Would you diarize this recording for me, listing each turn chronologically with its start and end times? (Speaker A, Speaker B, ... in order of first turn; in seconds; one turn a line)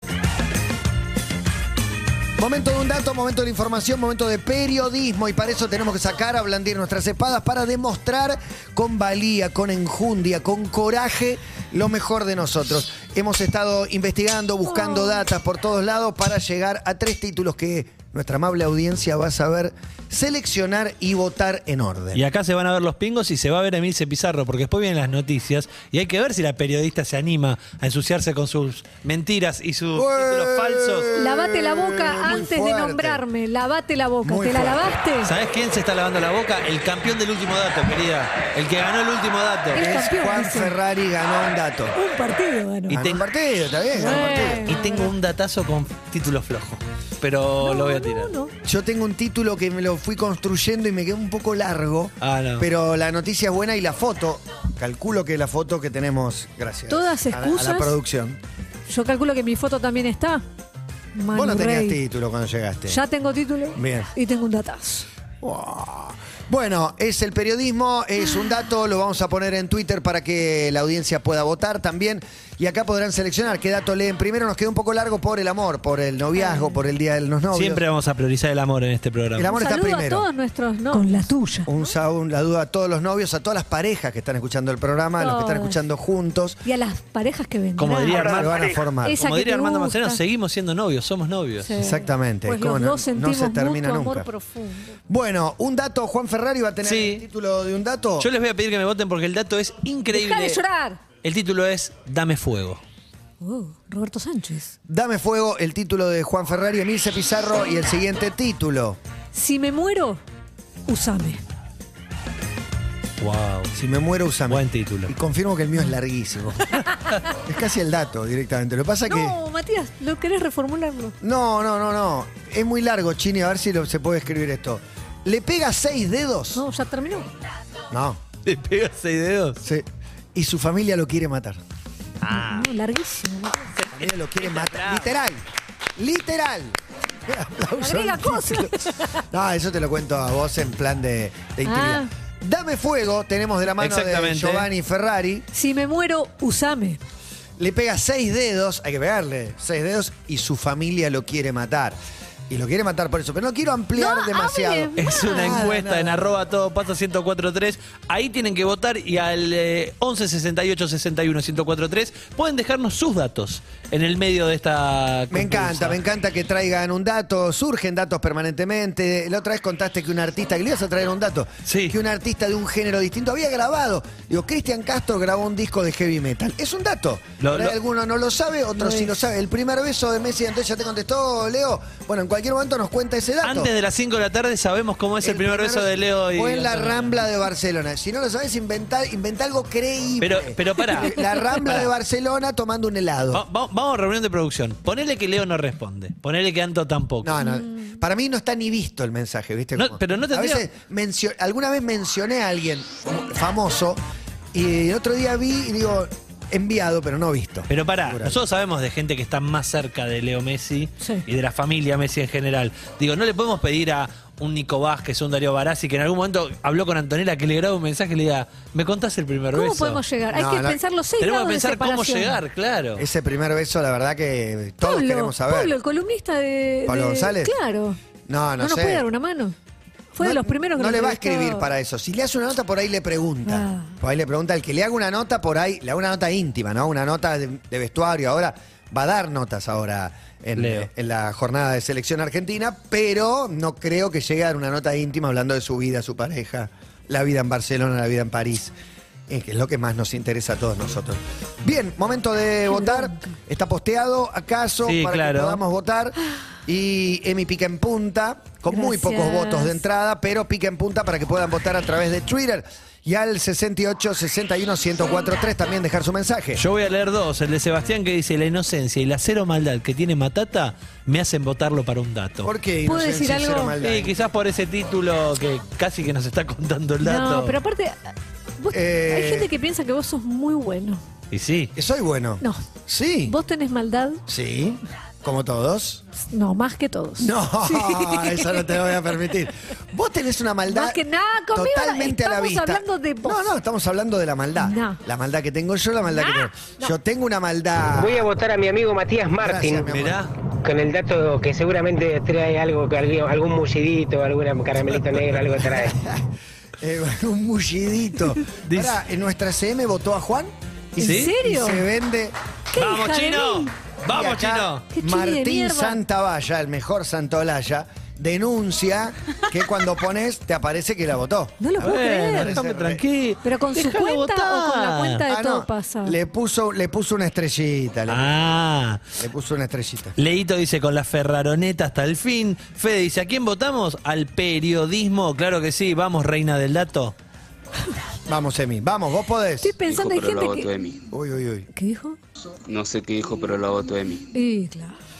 Speaker A: 2.4-22.2
Speaker B: 14.7-15.2
Speaker C: 22.1-31.1
Speaker A: 29.9-33.2
Speaker B: 31.1-35.3
Speaker A: 34.2-35.0
Speaker C: 35.2-39.8
Speaker B: 39.7-40.8
Speaker A: 39.7-42.0
Speaker B: 42.0-43.0
Speaker C: 42.9-43.2
Speaker A: 42.9-44.7
Speaker B: 43.9-45.1
Speaker C: 44.6-48.3
Speaker B: 47.6-48.5
Speaker A: 48.6-58.4
Speaker C: 52.2-52.7
Speaker B: 56.9-58.0
Speaker B: 58.9-60.4
Speaker B: 61.1-62.0
Speaker A: 61.3-63.0
Speaker B: 62.9-65.1
Speaker A: 63.8-64.1
Speaker A: 65.4-77.8
Speaker C: 77.5-79.5
Speaker A: 79.4-80.3
Speaker B: 79.5-81.9
Speaker A: 81.7-86.6
Speaker B: 85.2-85.8
Speaker B: 86.6-88.5
Speaker C: 87.8-91.7
Speaker A: 88.1-89.2
Speaker B: 89.0-90.2
Speaker B: 91.6-95.0
Speaker A: 91.8-94.3
Speaker A: 95.1-98.3
Speaker C: 96.8-97.2
Speaker C: 98.2-100.6
Speaker B: 100.1-101.0
Speaker C: 101.2-102.8
Speaker B: 103.4-104.7
Speaker A: 104.9-109.0
Speaker B: 109.3-110.2
Speaker B: 110.9-111.4
Speaker C: 113.2-113.7
Speaker A: 113.8-116.8
Speaker C: 114.5-115.1
Speaker A: 117.3-119.4
Speaker B: 119.1-121.2
Speaker A: 121.2-126.6
Speaker B: 126.5-127.3
Speaker A: 127.9-128.2
Speaker C: 128.4-129.6
Speaker A: 129.6-131.6
Speaker C: 132.2-132.7
Speaker B: 132.3-133.8
Speaker C: 133.8-135.1
Speaker A: 133.9-135.4
Speaker A: 136.0-136.8
Speaker A: 137.3-145.5
Speaker B: 137.8-139.2
Speaker B: 141.7-142.1
Speaker C: 143.8-144.7
Speaker B: 145.5-147.0
Speaker A: 147.6-152.0
Speaker A: 152.5-156.2
Speaker B: 154.0-155.7
Speaker C: 155.0-166.0
Speaker A: 165.3-183.7
Speaker C: 171.7-172.0
Speaker C: 177.4-177.8
Speaker C: 183.4-187.2
Speaker A: 185.2-193.4
Speaker C: 190.2-191.9
Speaker C: 193.3-197.3
Speaker A: 197.2-204.0
Speaker B: 197.4-197.9
Speaker C: 199.8-200.7
Speaker A: 204.5-208.4
Speaker C: 207.7-220.0
Speaker B: 211.0-211.3
Speaker B: 219.5-222.4
Speaker A: 220.3-220.8
Speaker C: 221.2-223.1
Speaker A: 223.0-225.8
Speaker B: 224.8-228.0
Speaker A: 226.9-227.6
Speaker A: 228.3-229.1
Speaker B: 228.6-229.6
Speaker B: 230.1-231.7
Speaker A: 230.2-248.7
Speaker B: 233.5-233.9
Speaker C: 240.6-240.9
Speaker A: 249.3-256.1
Speaker B: 252.7-253.3
Speaker C: 254.8-255.6
Speaker A: 256.7-266.6
Speaker B: 258.7-259.8
Speaker C: 266.6-272.5
Speaker A: 272.4-274.1
Speaker B: 272.9-273.8
Speaker C: 273.8-277.6
Speaker B: 277.0-281.0
Speaker A: 278.7-279.5
Speaker C: 281.3-281.7
Speaker A: 281.8-283.4
Speaker B: 283.3-284.2
Speaker A: 284.3-286.0
Speaker B: 286.3-288.7
Speaker A: 287.2-298.3
Speaker B: 290.7-293.5
Speaker B: 294.6-295.0
Speaker B: 296.1-296.9
Speaker D: 298.0-299.9
Speaker A: 299.4-300.2
Speaker C: 299.9-300.3
Speaker D: 300.6-306.0
Speaker A: 305.9-306.2
Speaker A: 306.8-312.4
Speaker C: 308.6-309.0
Speaker B: 311.0-311.8
Speaker C: 311.0-311.3
Speaker B: 312.7-313.7
Speaker C: 312.8-314.9
Speaker A: 314.1-323.0
Speaker B: 314.9-316.0
Speaker B: 321.6-322.6
Speaker C: 321.8-325.2
Speaker B: 323.4-326.2
Speaker A: 325.3-328.3
Speaker C: 328.1-329.0
Speaker A: 329.2-330.2
Speaker C: 330.2-337.1
Speaker A: 338.3-339.8
Speaker B: 339.6-340.7
Speaker E: 339.8-341.1
Speaker A: 341.1-341.7
Speaker B: 341.7-342.2
Speaker E: 342.7-344.3
Speaker B: 344.3-345.0